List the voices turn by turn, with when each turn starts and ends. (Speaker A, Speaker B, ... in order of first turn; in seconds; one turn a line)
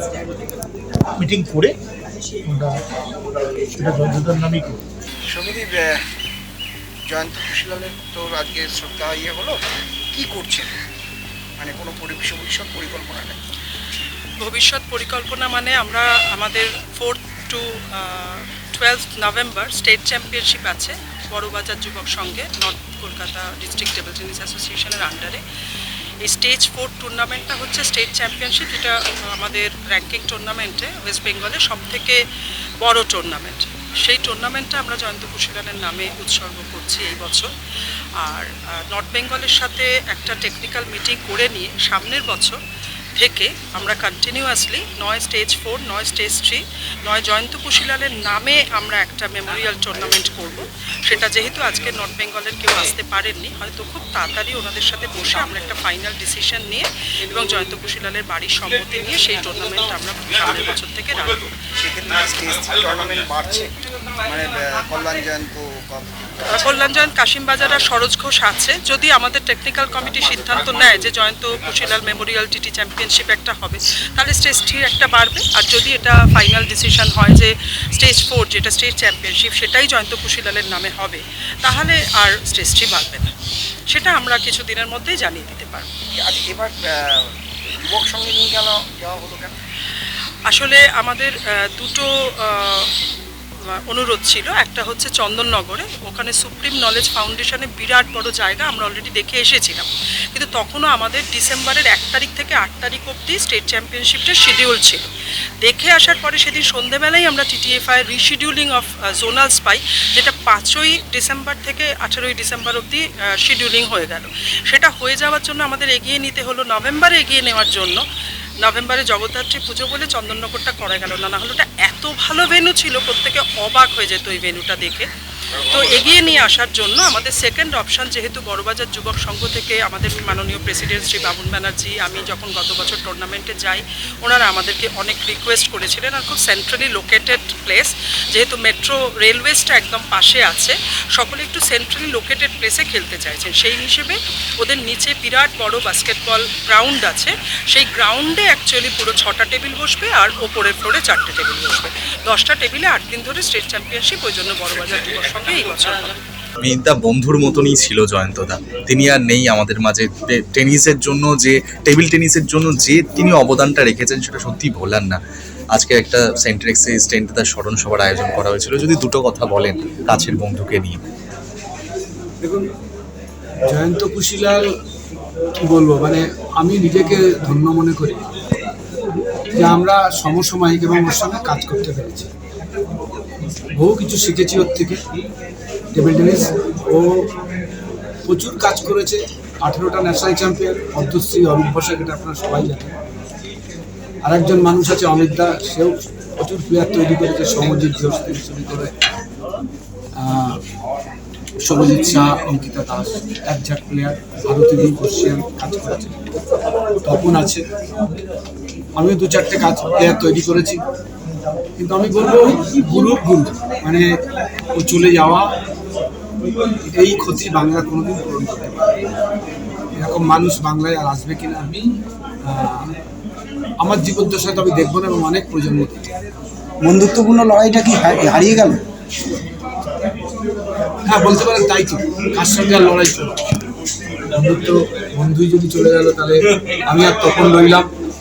Speaker A: 1.2-1.7
Speaker A: 2.5-2.8
Speaker A: 3.8-4.8
Speaker B: 5.3-6.0
Speaker B: 7.1-9.6
Speaker B: 10.1-10.7
Speaker B: 11.6-13.4
Speaker C: 14.4-25.4
Speaker C: 26.2-32.2
Speaker C: 32.8-37.5
Speaker C: 38.2-42.6
Speaker C: 43.2-61.5
Speaker B: 61.8-63.7
Speaker B: 64.2-66.3
Speaker C: 66.5-83.3
Speaker C: 83.9-85.9
Speaker B: 86.2-89.5
Speaker C: 90.5-92.9
Speaker C: 93.7-105.1
Speaker C: 105.6-118.0
Speaker C: 118.6-125.1
Speaker C: 125.6-156.2
Speaker D: 156.6-165.2
Speaker D: 165.7-171.0
Speaker E: 172.4-172.7
Speaker E: 173.6-174.7
Speaker E: 175.5-178.2
Speaker E: 179.5-182.3
Speaker E: 183.7-185.0
Speaker E: 185.9-187.3
Speaker E: 188.2-193.0
Speaker E: 194.2-198.9
Speaker E: 200.2-200.6
Speaker E: 201.6-206.2
Speaker E: 207.0-207.7
Speaker E: 208.9-210.8
Speaker E: 211.8-214.2
Speaker E: 214.7-215.6
Speaker E: 216.8-219.0
Speaker E: 220.0-222.9
Speaker E: 223.8-226.1
Speaker B: 226.8-228.8
Speaker E: 227.1-228.0
Speaker E: 231.0-233.4
Speaker E: 234.3-237.9